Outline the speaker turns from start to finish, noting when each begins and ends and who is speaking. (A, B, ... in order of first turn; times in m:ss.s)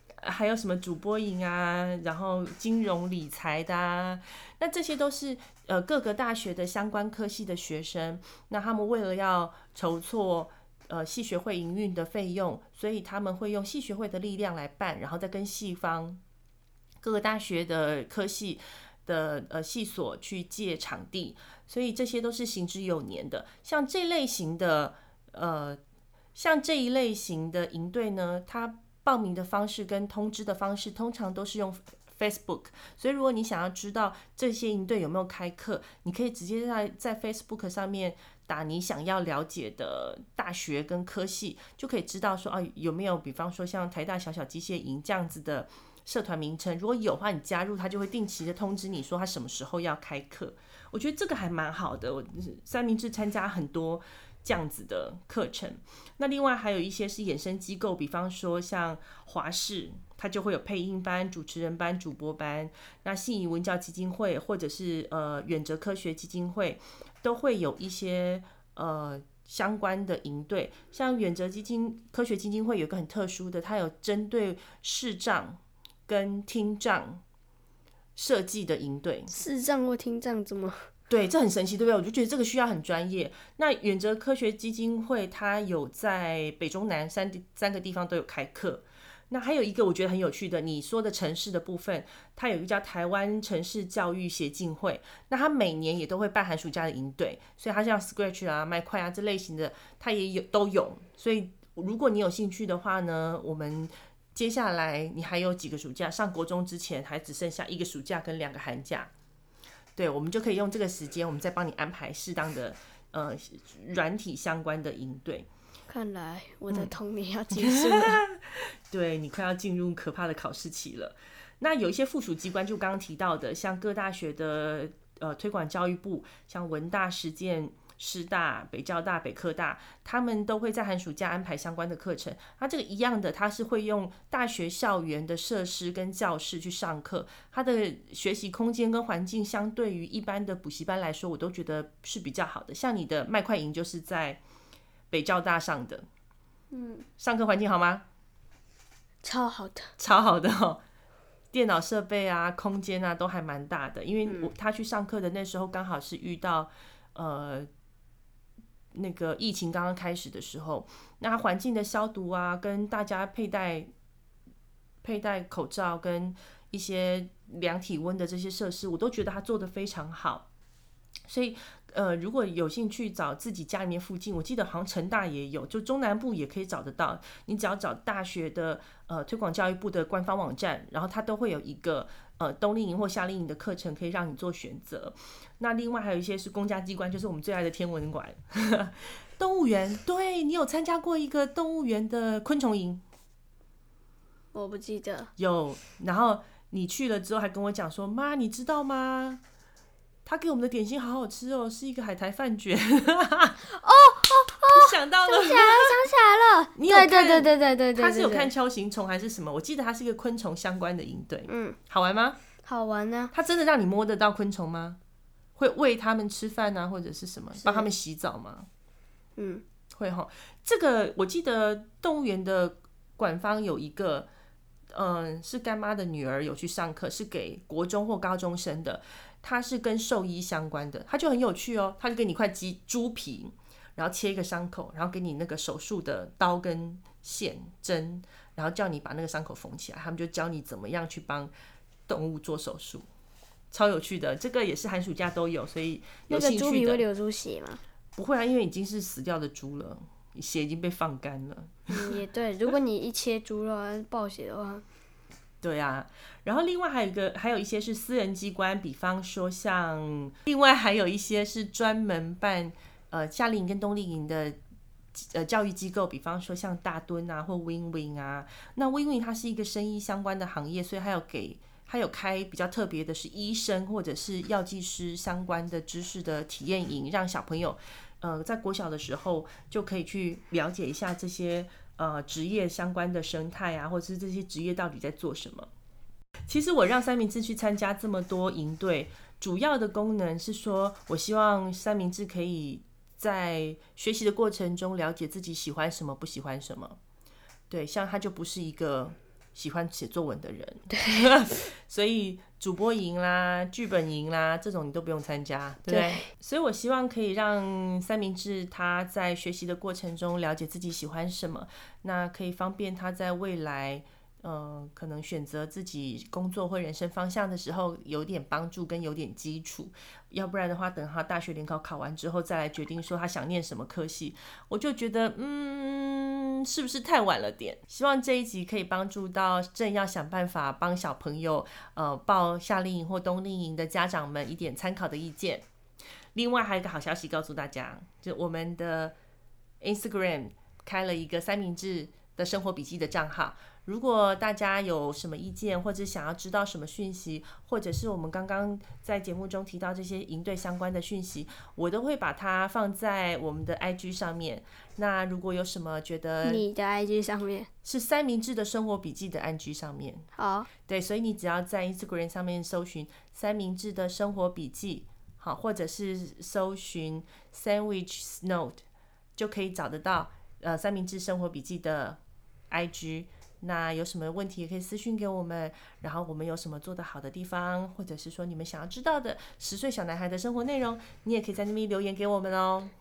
0:00.2-0:16.2 A
0:17.0-0:25.8 A
0:26.4-1:17.2 A
1:18.2-1:19.3 A
1:19.3-1:20.8 B
1:21.1-1:49.1 A
1:50.0-1:55.5 A
1:55.9-1:58.2 B
1:57.5-2:24.4 A
2:25.1-2:26.0 A
2:26.7-2:27.1 B
2:27.2-2:28.0 A
2:29.2-2:29.9 B
2:30.0-2:30.8 A
2:31.5-2:37.7 A
2:38.9-2:43.9 A
2:45.0-2:50.5 A
2:51.3-3:13.0 A
3:14.5-3:15.3 B
3:15.4-3:19.4 A
3:20.3-3:23.6 A
3:23.7-3:28.5 B
3:24.2-3:26.0 A
3:26.8-3:32.4 A
3:31.5-3:31.8 B
3:32.6-3:33.3 B
3:33.3-3:35.0 A
3:35.6-3:38.7 A
3:37.6-3:37.9 B
3:39.4-3:39.6 B
3:40.0-3:44.3 A
3:44.9-4:01.5 A
4:02.1-4:03.1 A
4:03.7-4:07.0 A
4:06.3-4:07.8 B
4:08.2-4:12.1 A
4:11.9-4:14.8 B
4:15.6-4:24.6 A
4:25.2-4:45.7 A
4:46.5-4:57.0 A
4:57.7-5:35.7 A
5:00.9-5:01.2 B
5:05.9-5:06.3 B
5:36.4-5:39.2 A
5:39.8-5:56.6 A
5:56.4-5:57.7 B
5:57.8-6:00.3 A
6:00.4-6:00.7 B
6:00.9-6:08.8 A
6:09.4-6:12.2 A
6:12.7-6:22.9 A